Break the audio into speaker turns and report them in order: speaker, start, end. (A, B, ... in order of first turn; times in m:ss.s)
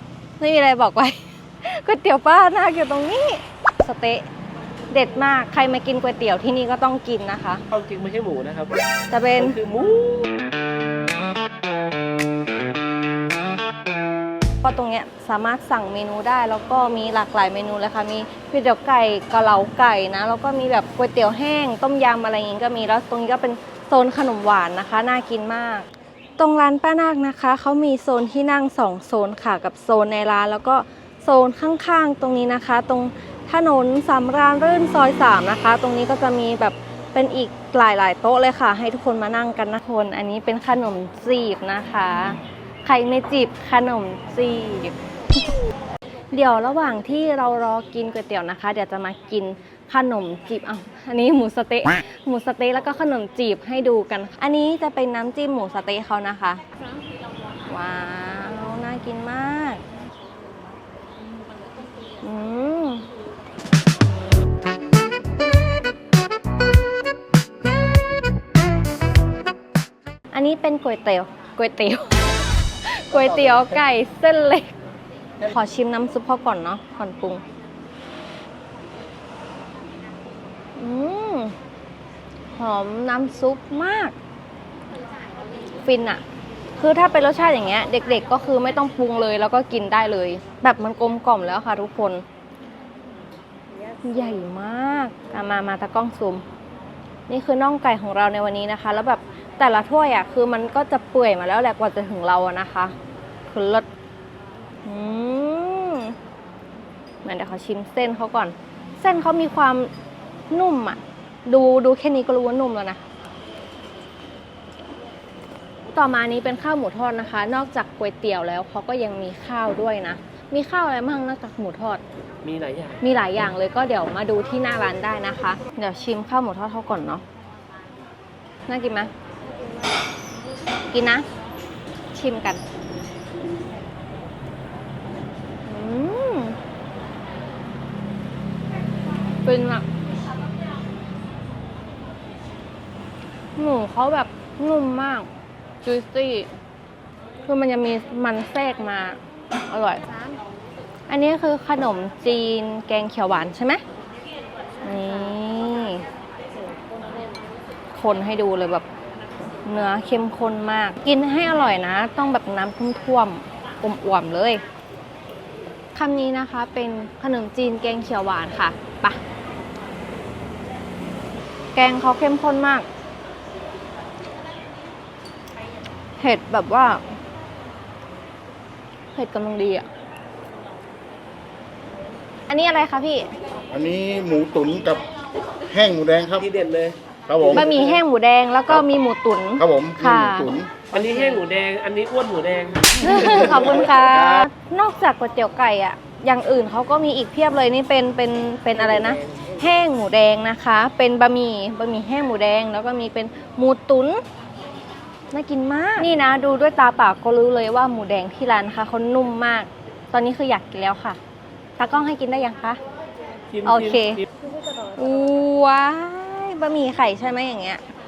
0:00.4-0:04.2 A
0:04.9-0:07.6 A
0:07.7-0:08.8 B
0:09.1-0:09.6 A
0:09.4-0:10.3 B
0:14.6-0:45.0 A
0:46.3-0:56.6 A
0:57.7-0:59.8 A
1:02.2-1:03.0 A
1:10.3-1:12.2 A
1:12.8-1:14.6 A
1:15.4-1:17.4 A
1:20.8-1:21.6 A
1:22.5-1:24.1 A
1:25.8-1:26.2 A
1:26.8-1:32.2 A
1:34.0-1:36.4 A
1:37.3-1:42.9 A
1:43.5-1:43.8 A
1:44.8-1:46.2 A
1:47.2-1:49.9 A
1:50.5-1:53.0 A
1:55.9-2:02.0 A
2:02.4-2:03.0 B
2:03.0-2:07.2 A
2:08.7-2:09.1 A
2:10.9-2:11.2 A
2:12.1-2:12.6 A
2:15.6-2:16.6 A
2:19.4-2:19.8 A
2:23.6-2:25.3 A
2:25.8-2:26.5 A
2:27.4-2:30.0 A
2:31.1-2:33.8 A
2:34.8-2:36.0 A
2:37.9-2:38.8 A
2:39.6-2:44.6 A
2:45.9-2:49.2 A
2:51.7-2:52.8 A
2:56.2-2:57.0 A
2:59.1-2:59.8 A
3:02.5-3:03.3 A
3:03.7-3:05.0 C
3:05.6-3:06.4 C
3:06.3-3:07.0 B
3:07.3-3:07.7 C
3:07.5-3:11.4 A
3:09.6-3:10.8 C
3:10.9-3:13.7 B
3:13.0-3:24.2 A
3:13.3-3:13.6 C
3:18.7-3:19.5 B
3:25.3-3:31.2 A
3:31.8-3:32.8 A
3:33.5-3:34.2 B
3:33.6-3:34.2 A
3:34.8-3:37.8 A